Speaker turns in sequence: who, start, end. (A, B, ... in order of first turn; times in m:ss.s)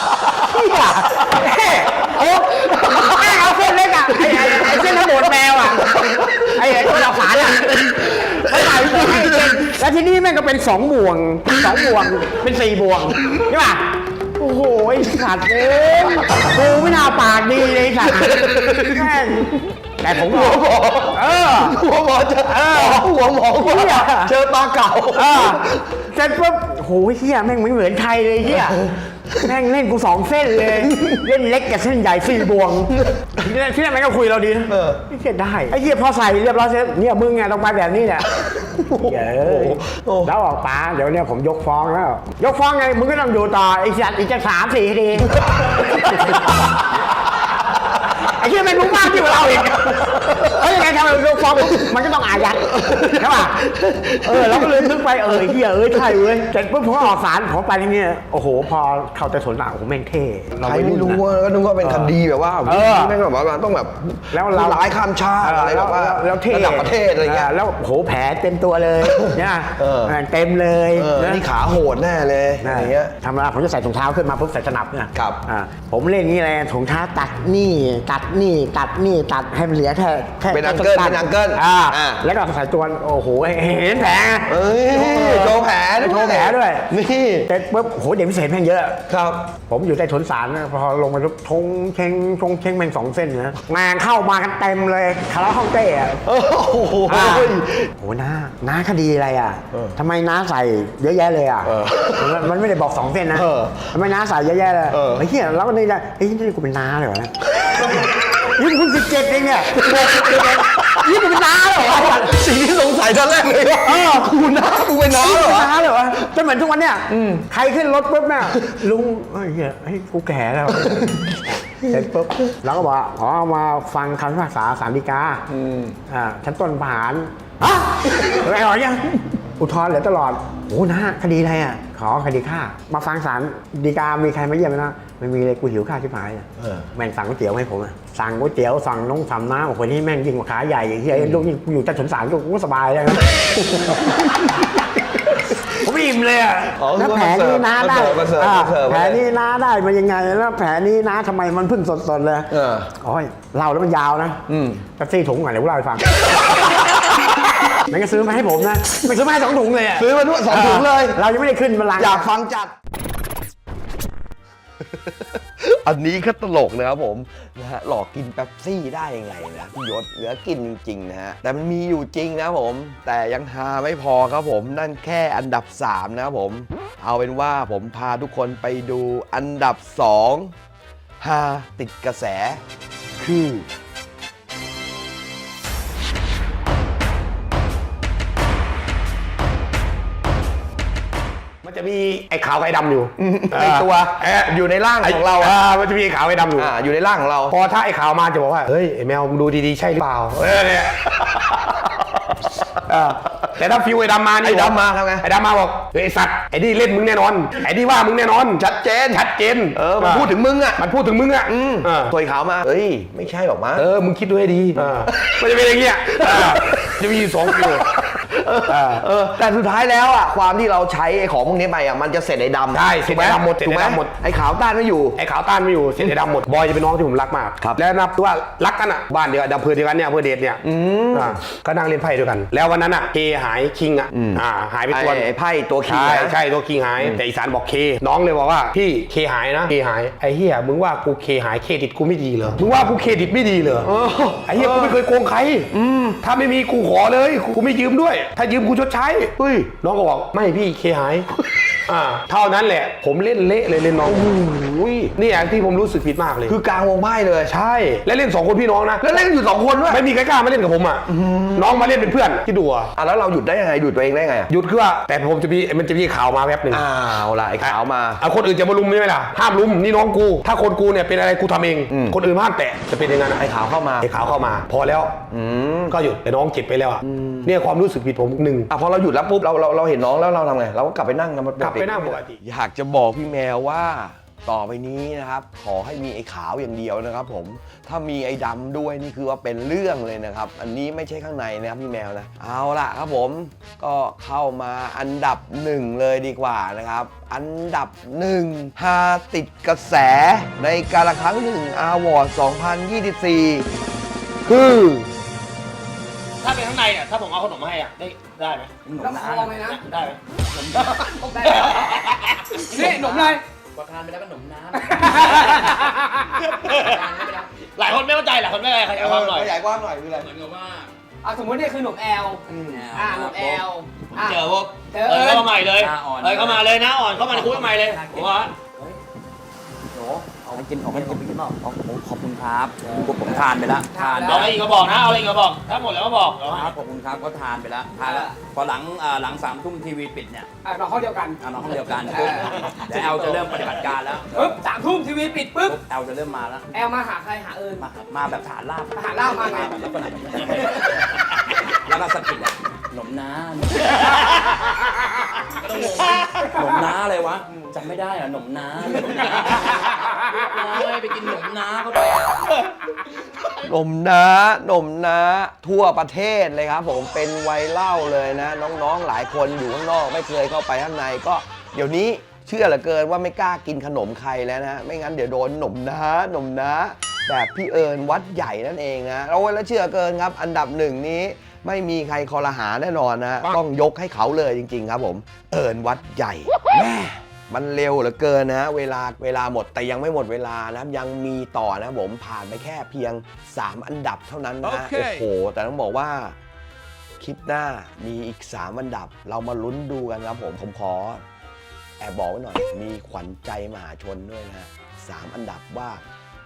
0:00.4-0:21.8 A
0:01.3-0:03.5 B
0:04.2-0:05.1 B
0:05.8-0:06.6 B
0:07.6-0:09.7 B
0:18.2-0:19.0 B
0:20.1-0:26.0 B
0:22.5-0:24.3 A
0:25.1-0:38.3 A
0:28.8-0:29.5 B
0:30.9-0:31.2 B
0:32.9-0:33.2 B
0:34.7-0:35.0 B
0:38.5-0:40.3 B
0:39.0-0:46.4 A
0:45.5-0:46.4 B
0:48.3-0:53.6 A
0:50.2-0:50.5 B
0:52.7-0:55.6 B
0:54.2-1:01.2 A
1:00.6-1:07.5 B
1:01.8-1:03.2 A
1:04.3-1:11.5 A
1:09.0-1:10.2 B
1:11.0-1:13.1 B
1:12.6-1:26.9 A
1:15.1-1:15.4 B
1:20.5-1:22.2 B
1:24.5-1:27.5 B
1:27.5-1:29.0 A
1:29.1-1:29.5 B
1:29.7-1:36.2 A
1:36.2-1:37.9 B
1:37.1-1:52.4 A
1:41.6-1:42.5 B
1:43.3-1:44.0 B
1:44.9-1:45.2 B
1:47.5-1:48.6 B
1:49.8-1:51.1 B
1:52.0-1:55.7 B
1:53.8-1:54.4 A
1:55.1-2:05.4 A
1:57.1-1:57.5 B
1:58.5-1:58.8 B
2:00.8-2:02.6 B
2:05.5-2:06.0 B
2:06.1-2:24.4 A
2:16.6-2:16.9 B
2:21.1-2:21.4 B
2:25.8-2:34.4 A
2:26.8-2:29.2 B
2:32.5-2:32.9 B
2:34.5-2:34.8 B
2:35.0-2:36.3 A
2:37.9-2:42.3 A
2:40.0-2:41.2 B
2:42.0-2:42.7 B
2:45.6-3:00.5 B
3:01.2-3:02.6 B
3:03.2-3:03.7 B
3:11.6-3:16.7 C
3:13.2-3:15.5 B
3:16.6-3:17.6 B
3:17.5-3:20.9 C
3:20.4-3:21.8 B
3:22.9-3:32.1 C
3:22.9-3:23.6 B
3:24.4-3:25.2 B
3:28.6-3:30.8 B
3:31.5-3:33.9 B
3:33.8-3:37.9 C
3:34.8-3:45.2 B
3:38.7-3:39.1 C
3:42.7-3:44.1 C
3:45.2-3:50.6 C
3:50.6-3:51.4 B
3:51.1-3:55.3 C
3:54.1-3:56.4 B
3:55.8-4:03.9 C
4:03.8-4:05.0 B
4:04.4-4:05.7 C
4:05.7-4:06.2 B
4:06.2-4:11.3 C
4:09.4-4:09.7 B
4:11.9-4:14.3 C
4:14.0-4:15.1 B
4:15.2-4:16.6 C
4:16.5-4:17.5 B
4:17.5-4:19.2 C
4:19.0-4:20.0 B
4:19.9-4:22.9 C
4:21.1-4:21.9 B
4:23.0-4:24.5 B
4:24.5-4:26.8 C
4:26.7-4:28.2 B
4:27.6-4:35.2 C
4:31.9-4:32.2 B
4:33.4-4:34.1 B
4:35.3-4:36.0 B
4:35.9-4:38.7 C
4:37.0-4:37.5 B
4:38.7-5:03.7 B
4:41.6-4:42.4 C
5:04.5-5:05.1 B
5:06.4-5:08.7 D
5:08.8-5:10.0 E
5:09.0-5:09.8 F
5:09.9-5:10.2 D
5:10.5-5:12.0 E
5:10.8-5:12.2 D
5:11.2-5:13.4 F
5:12.5-5:15.9 E
5:12.8-5:13.0 D
5:14.7-5:16.0 F
5:16.5-5:17.1 D
5:16.6-5:17.4 E
5:17.8-5:19.5 D
5:19.0-5:20.3 B
5:19.1-5:20.9 E
5:21.2-5:22.4 F
5:22.5-5:22.8 B
5:22.6-5:24.4 E
5:22.9-5:25.6 F
5:24.4-5:28.5 D
5:25.4-5:29.0 E
5:29.9-5:34.8 E
5:33.9-5:35.0 F
5:34.2-5:36.7 D
5:36.4-5:40.5 E
5:38.0-5:38.3 F
5:40.6-5:43.8 F
5:41.4-5:44.6 E
5:44.3-5:45.8 F
5:45.6-5:46.7 E
5:46.7-5:47.9 F
5:47.8-5:51.0 E
5:49.0-5:49.8 F
5:50.4-5:50.6 F
5:51.8-5:54.4 E
5:55.6-6:02.6 E
5:55.8-5:56.9 F
6:00.7-6:01.3 F
6:03.7-6:36.4 B
6:34.6-6:35.2 D
6:37.2-6:41.2 B
6:42.0-6:46.0 B